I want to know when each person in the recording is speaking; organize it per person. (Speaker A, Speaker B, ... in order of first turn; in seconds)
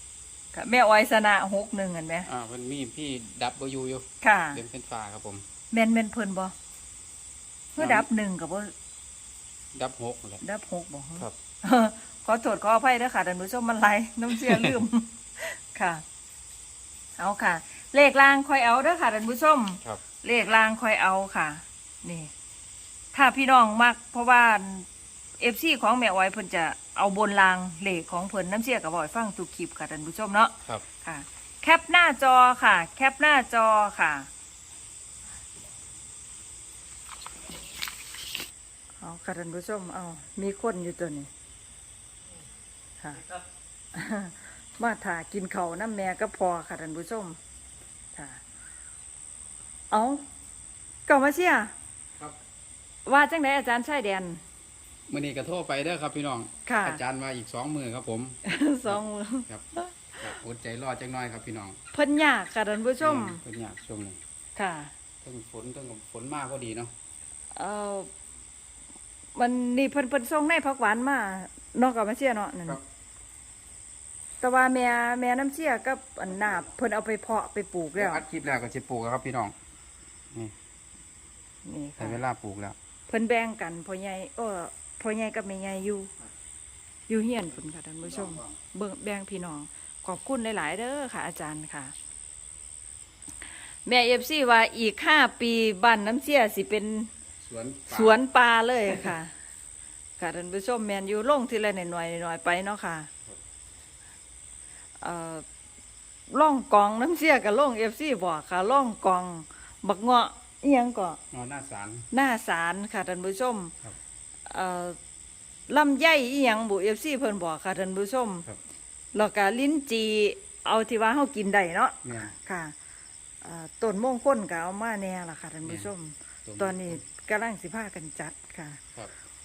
Speaker A: 0.5-2.3, 4.2-4.6, 5.7-6.5, 7.8-8.7, 10.4-16.0, 17.2-22.3, 23.1-24.9, 25.4-34.3, 39.0-41.3, 43.9-47.4, 48.1-48.4, 49.9-50.2, 51.1-51.7, 53.1-54.4, 56.7-57.0, 58.5-60.4, 61.9-63.4, 64.6-64.9, 67.6-68.1, 69.4-72.8, 74.4-78.2, 81.7-82.2, 83.1-86.1, 87.1-91.9, 93.9-97.1, 97.9-99.3, 100.2-103.1, 105.0-105.5, 106.3-111.2, 112.1-113.7, 114.5-115.0, 115.7-118.5, 119.1-122.7, 123.4-128.8
Speaker B: 2.3-5.4, 7.8-8.1, 9.7-10.4, 14.4-14.8, 55.1-59.6, 60.2-61.8, 63.0-64.2, 65.2-66.9, 78.0-79.6, 82.0-82.8, 88.1-88.5, 97.4-98.2, 111.3-112.1, 122.0-122.3, 125.6-125.9, 126.5-127.0